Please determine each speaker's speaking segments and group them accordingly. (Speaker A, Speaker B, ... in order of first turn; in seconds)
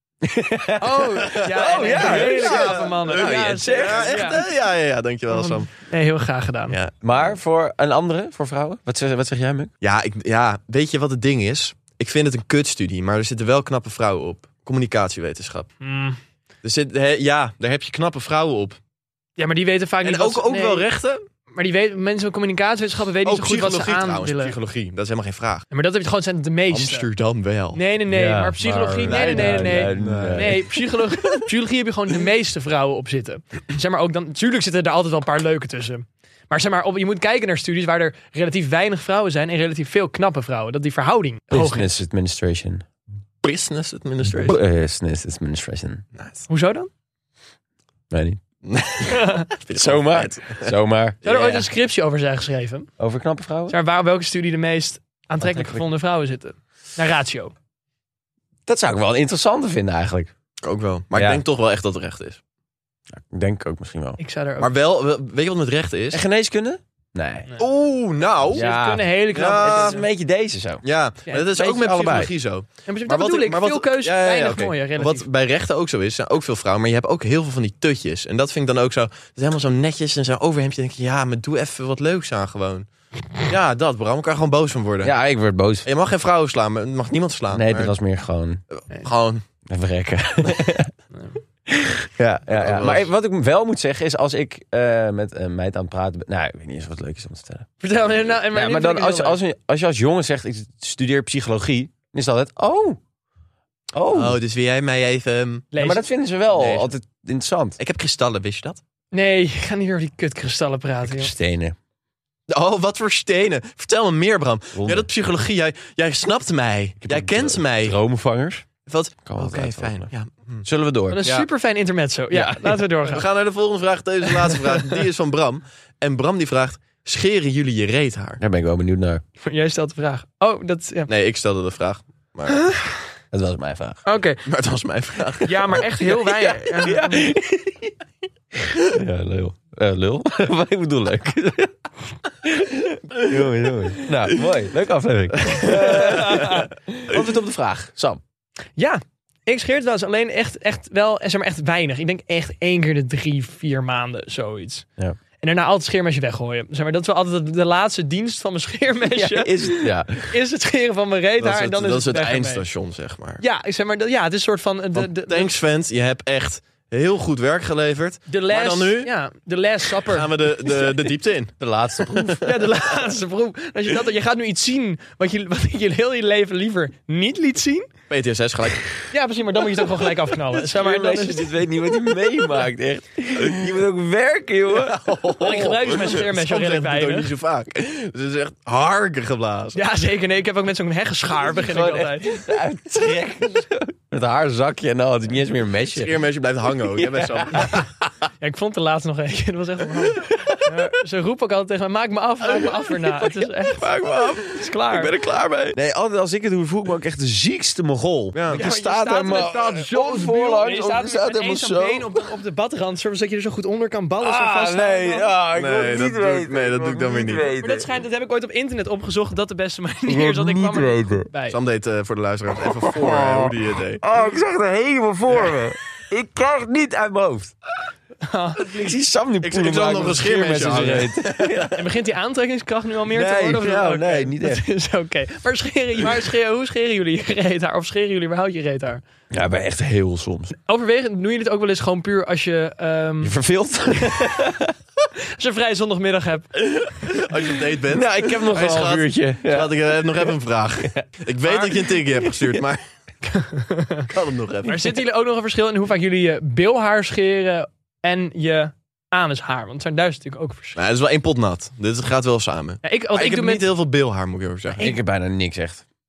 Speaker A: 0.2-4.2, 7.0-9.7, 28.1-30.6, 41.5-42.9, 44.2-46.0, 48.1-48.4, 49.7-51.6, 53.0-53.8, 55.4-55.8, 58.7-60.3, 61.1-61.4, 63.1-64.2, 66.1-67.5, 68.5-70.8, 71.5-72.3, 85.0-85.9, 87.5-88.6, 89.7-90.9, 91.7-97.7, 98.5-103.0, 103.9-104.4, 105.8-107.8, 111.0-111.8, 114.7-115.1, 117.0-118.7, 119.3-120.1, 120.7-121.3, 122.3-122.9, 128.4-129.2, 133.3-134.0, 136.3-137.9, 138.6-141.7, 142.4-148.2, 159.1-160.4, 171.6-172.7, 180.5-185.0, 191.4-196.1, 196.7-197.8, 200.2-200.7, 203.0-204.4, 205.7-212.2, 214.2-217.9, 220.1-221.3, 222.6-227.6, 228.7-231.8, 233.1-234.7, 239.3-240.5, 243.2-244.8, 247.9-251.1, 264.8-265.8
Speaker B: 0.8-4.4, 5.3-6.8, 15.8-16.2, 19.4-20.9, 21.6-24.6, 25.7-27.1, 27.7-42.0, 46.5-46.9, 49.1-49.5, 51.2-52.9, 53.7-57.5, 64.2-64.7, 68.5-70.0, 72.9-75.3, 97.8-99.4, 105.7-106.0, 109.1-111.3, 121.1-123.3, 124.5-124.8, 129.4-131.1, 132.5-132.9, 134.1-134.4, 135.4-137.3, 145.6-146.7, 148.8-154.8, 155.4-162.6, 163.4-165.5, 168.3-170.7, 172.4-177.9, 179.1-181.5, 185.4-187.3, 189.8-192.4, 198.4-205.1, 208.5-215.3, 217.6-221.6, 228.2-228.9, 231.7-239.0, 240.6-243.4, 245.3-246.5, 251.4-251.7, 253.2-254.1, 254.7-260.8, 262.8-263.7
Speaker C: 1.3-5.7, 6.7-7.3, 9.8-15.7, 16.6-18.8, 20.0-21.2, 23.2-25.7, 26.7-27.8, 29.1-30.7, 43.4-44.6, 46.2-46.5, 48.7-50.7, 51.2-51.6, 60.6-62.4, 64.6-66.2, 67.6-68.6, 69.3-70.0, 70.8-82.9, 83.4-85.2, 85.8-88.0, 88.7-89.4, 92.5-93.1, 104.1-105.7, 106.5-106.9, 107.8-108.8, 112.5-118.0, 118.9-120.7, 123.1-128.4, 131.1-132.7, 134.5-135.8, 161.4-163.4, 165.0-169.1, 170.1-171.5, 178.1-178.9, 184.7-189.8, 195.9-197.8, 204.0-204.3, 204.9-205.8, 208.3-208.6, 215.5-217.6, 221.5-224.0, 229.4-231.7, 247.1-252.8, 254.1-255.0, 260.8-264.8